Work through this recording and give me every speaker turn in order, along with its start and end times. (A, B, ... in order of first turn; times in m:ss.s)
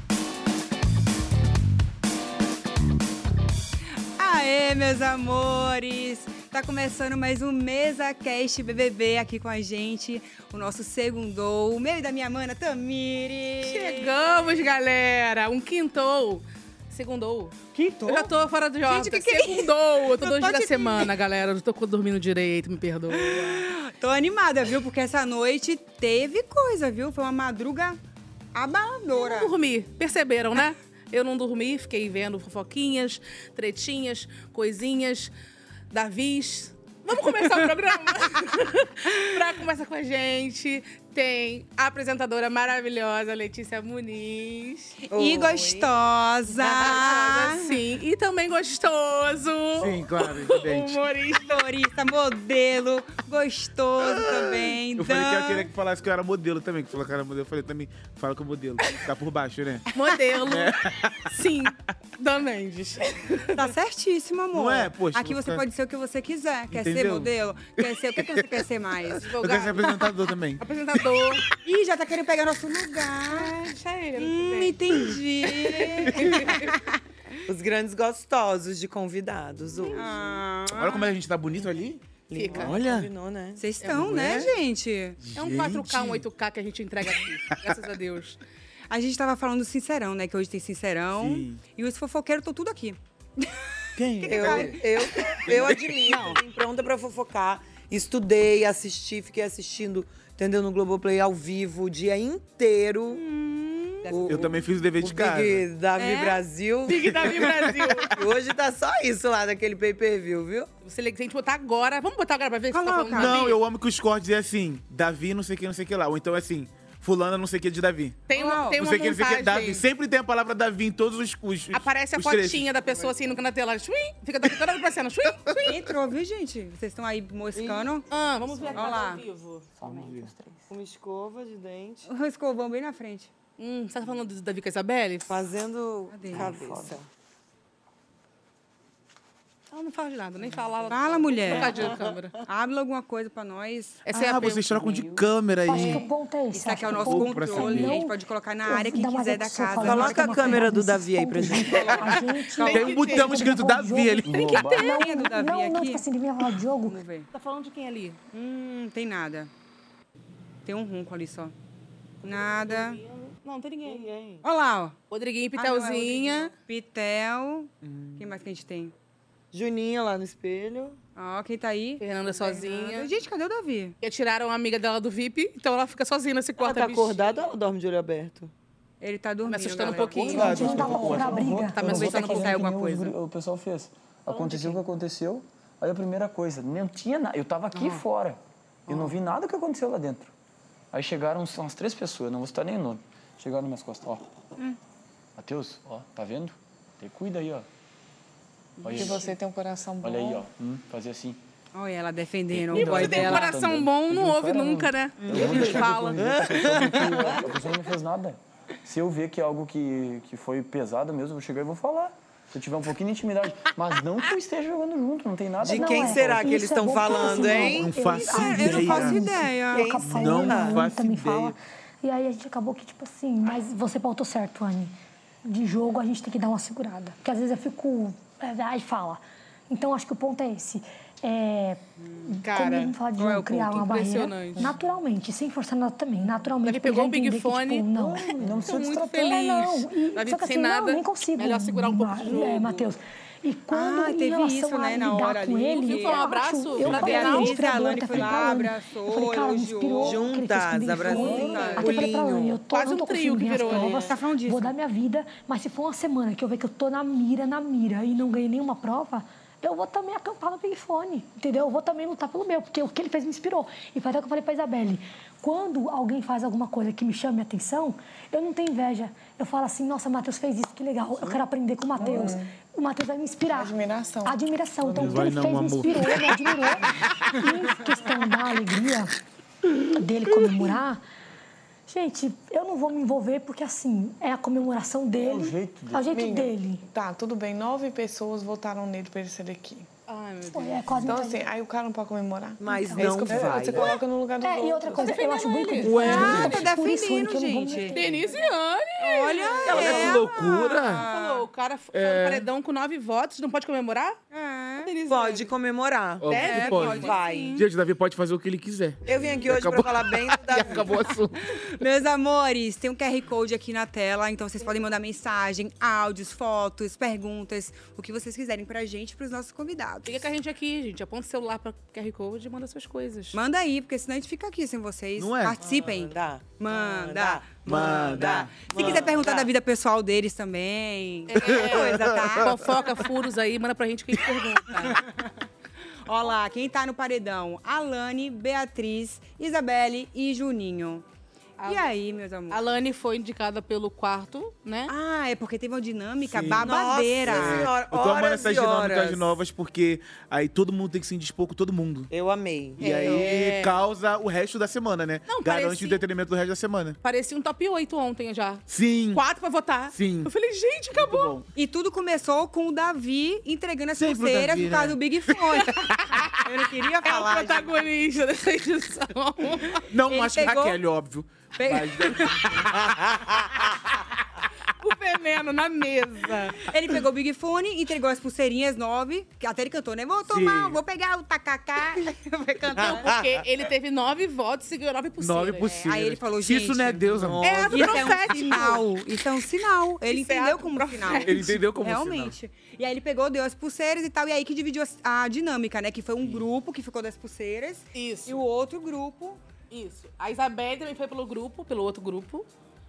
0:04.2-0:14.2 A
0:13.6-0:23.6 B
0:17.7-0:18.3 A
0:18.8-0:21.1 A
0:23.1-0:28.0 A
0:28.5-0:29.5 A
0:29.1-0:35.3 B
0:35.9-0:45.0 B
0:37.3-0:37.7 A
0:39.1-0:39.4 A
0:45.1-0:47.7 A
0:45.1-0:45.9 C
0:46.5-0:51.6 B
0:49.8-0:51.0 D
0:51.3-0:55.7 A
0:54.1-0:59.8 D
0:59.9-1:00.7 B
1:00.5-1:01.3 D
1:01.3-1:03.7 B
1:03.6-1:09.2 A
1:04.5-1:05.6 D
1:06.7-1:08.5 D
1:09.2-1:11.4 B
1:09.4-1:10.6 D
1:11.6-1:13.6 A
1:13.3-1:16.7 B
1:14.2-1:16.9 A
1:17.5-1:20.4 C
1:19.9-1:21.1 A
1:20.7-1:23.1 D
1:22.3-1:23.6 C
1:22.3-1:22.8 B
1:23.6-1:25.2 A
1:23.8-1:24.5 B
1:23.9-1:24.5 D
1:25.2-1:26.2 D
1:25.4-1:28.4 B
1:28.9-1:33.0 A
1:31.2-1:31.6 D
1:34.0-1:34.7 D
1:34.2-1:34.8 A
1:34.2-1:43.2 C
1:35.4-1:36.0 D
1:36.1-1:36.4 A
1:43.2-1:44.3 A
1:44.1-1:47.4 C
1:44.3-1:45.6 D
1:46.0-1:46.4 A
1:46.9-1:48.1 B
1:48.2-1:50.7 C
1:50.8-1:53.6 B
1:52.7-1:53.6 A
1:53.2-1:58.2 D
1:58.3-1:59.8 B
1:58.3-1:58.8 A
1:58.8-2:02.7 D
2:01.7-2:05.8 B
2:05.6-2:08.0 A
2:07.6-2:07.9 C
2:08.1-2:09.7 B
2:08.5-2:09.1 C
2:08.7-2:09.2 A
2:09.8-2:10.3 D
2:10.7-2:12.1 C
2:12.1-2:13.3 A
2:13.6-2:15.3 B
2:15.3-2:17.0 C
2:16.1-2:16.5 A
2:19.7-2:22.4 B
2:20.9-2:24.0 A
2:24.1-2:25.1 B
2:24.1-2:26.1 D
2:25.6-2:37.0 E
2:26.5-2:30.6 A
2:27.0-2:28.0 D
2:29.8-2:32.0 C
2:32.6-2:33.3 A
2:32.6-2:33.3 B
2:32.6-2:34.3 D
2:34.2-2:35.0 F
2:34.3-2:35.0 B
2:34.6-2:36.0 A
2:36.8-2:37.3 A
2:37.3-2:38.2 B
2:38.3-2:39.5 A
2:40.6-2:41.5 A
2:42.2-2:43.0 A
2:42.2-2:44.1 B
2:43.9-2:44.4 C
2:44.4-2:45.0 A
2:45.1-2:46.5 B
2:45.6-2:48.9 A
2:49.5-2:51.0 C
2:51.2-2:54.0 A
2:52.0-2:53.1 B
2:54.0-2:57.5 B
2:56.6-2:58.5 C
2:59.0-3:01.1 A
2:59.5-3:01.0 B
3:00.0-3:10.3 F
3:00.2-3:01.8 E
3:00.3-3:01.6 D
3:01.7-3:02.6 B
3:01.8-3:03.2 A
3:04.5-3:04.7 A
3:07.7-3:08.0 A
3:08.9-3:09.2 A
3:10.9-3:14.2 F
3:15.4-3:17.7 F
3:18.8-3:19.4 A
3:18.8-3:19.3 F
3:19.0-3:20.4 G
3:20.0-3:21.4 F
3:21.7-3:23.5 A
3:22.5-3:36.6 F
3:22.7-3:27.3 B
3:25.3-3:27.4 C
3:35.6-3:38.0 C
3:35.7-4:39.1 E
3:37.8-3:39.3 D
3:38.0-3:40.0 A
3:39.7-3:40.8 C
3:40.1-3:41.6 D
3:52.4-3:53.0 B
3:53.2-3:53.9 A
3:53.7-3:54.7 B
3:56.6-3:57.9 B
3:58.0-3:59.3 F
3:58.5-4:02.9 B
4:03.7-4:10.3 A
4:05.8-4:07.6 B
4:10.0-4:12.6 C
4:11.1-4:12.0 A
4:11.4-4:12.0 B
4:12.7-4:14.1 B
4:13.7-4:14.1 C
4:13.9-4:14.7 A
4:32.0-4:32.5 G
4:33.5-4:35.4 G
4:34.9-4:36.4 D
4:39.8-4:41.0 E
4:41.9-4:46.8 E
4:45.2-4:46.2 F
4:46.1-4:49.9 G
4:50.1-4:51.1 B
4:50.4-4:51.5 E
4:51.0-4:55.2 G
4:52.6-4:54.0 C
4:52.7-4:53.2 E
4:54.4-4:58.6 E
4:55.0-4:56.6 B
4:55.8-4:56.6 D
4:55.9-4:58.0 A
4:57.9-5:00.2 B
4:59.0-5:01.5 A
4:59.6-5:00.3 C
4:59.7-5:01.1 D
5:01.0-5:04.2 B
5:01.9-5:02.5 D
5:04.3-5:04.9 A
5:04.8-5:05.5 B
5:05.1-5:07.6 C
5:06.2-5:11.4 D
5:06.3-5:07.2 B
5:06.4-5:07.7 A
5:09.1-5:11.0 C
5:11.5-5:20.3 A
5:20.0-5:23.4 B
5:23.3-5:32.7 A
5:25.2-5:25.6 D
5:25.6-5:29.5 C
5:27.6-5:29.1 D
5:31.3-5:35.0 B
5:36.1-5:41.0 A
5:41.6-5:42.0 B
5:41.6-5:42.6 A
5:42.5-5:44.9 B
5:44.9-5:47.7 A
5:46.2-5:46.7 D
5:46.6-5:49.4 C
5:47.2-5:52.1 D
5:52.1-5:53.3 C
5:52.8-5:57.0 D
5:52.8-5:53.8 B
5:55.3-5:56.0 B
5:57.0-6:01.4 B
5:58.7-5:59.2 D
5:59.9-6:00.3 D
6:01.0-6:01.5 D
6:01.6-6:07.8 A
6:04.0-6:05.0 D
6:05.5-6:09.8 B
6:09.9-6:12.7 D
6:10.0-6:10.8 A
6:11.6-6:12.5 A
6:14.8-6:16.6 B
6:16.6-6:23.2 A
6:20.2-6:20.8 D
6:22.8-6:23.2 C
6:22.8-6:25.8 B
6:25.2-6:28.0 D
6:25.8-6:39.4 A
6:27.2-6:27.9 C
6:27.4-6:28.9 B
6:30.0-6:31.4 B
6:31.2-6:32.4 D
6:38.0-6:38.4 B
6:39.7-6:42.5 B